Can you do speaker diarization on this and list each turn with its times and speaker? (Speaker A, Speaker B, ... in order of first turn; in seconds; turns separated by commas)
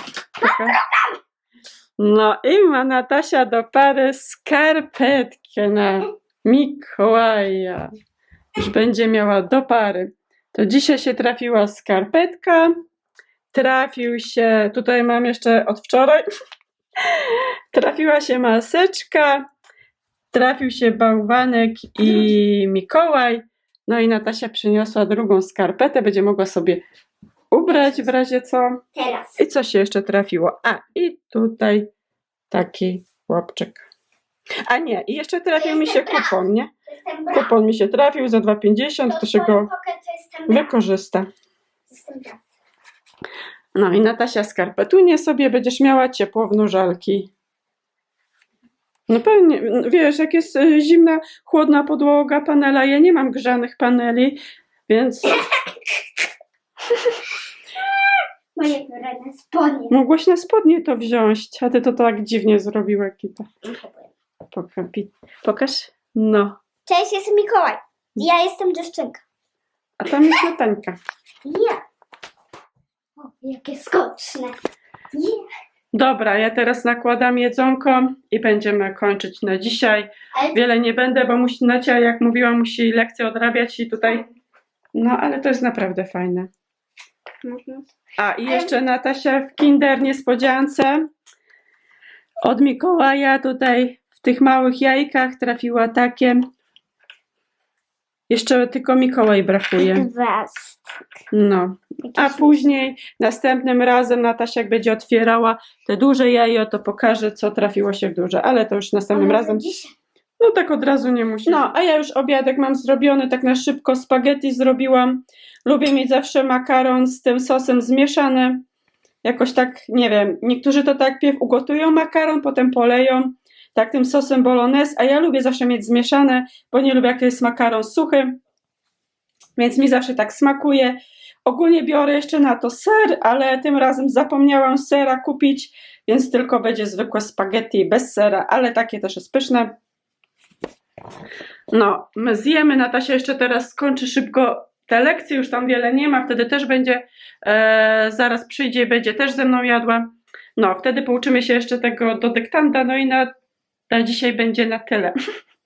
Speaker A: 0.4-0.8, Speaker B: 0.4-1.2, Speaker A: 2.0-7.9, Speaker A: 8.6-12.7, Speaker A: 13.5-16.2, Speaker A: 17.1-19.4, Speaker A: 20.3-26.8, Speaker A: 27.5-28.8, Speaker B: 27.6-28.1, Speaker B: 28.9-29.4, Speaker A: 29.4-31.9, Speaker A: 32.5-33.9, Speaker A: 34.6-36.7, Speaker B: 35.5-37.5, Speaker A: 37.3-39.7, Speaker B: 39.0-40.7, Speaker A: 40.5-41.3, Speaker B: 41.9-42.4, Speaker A: 43.7-47.3, Speaker A: 49.1-55.4, Speaker B: 57.8-59.9, Speaker A: 59.9-63.5, Speaker B: 63.6-64.1, Speaker A: 64.5-66.5, Speaker B: 66.9-69.2, Speaker A: 70.0-71.0, Speaker B: 71.4-71.8, Speaker B: 73.2-74.6, Speaker B: 75.1-75.5, Speaker A: 75.9-84.2, Speaker B: 84.0-84.3, Speaker A: 84.9-86.5, Speaker B: 87.4-87.9, Speaker A: 88.2-91.0, Speaker B: 88.4-88.8, Speaker A: 92.4-96.4, Speaker A: 98.3-100.1, Speaker B: 99.8-100.8, Speaker A: 101.3-109.6, Speaker B: 102.0-102.7, Speaker B: 109.1-109.9, Speaker A: 110.4-118.6, Speaker A: 119.2-128.4, Speaker A: 129.6-139.7, Speaker A: 141.7-153.3, Speaker A: 153.9-155.1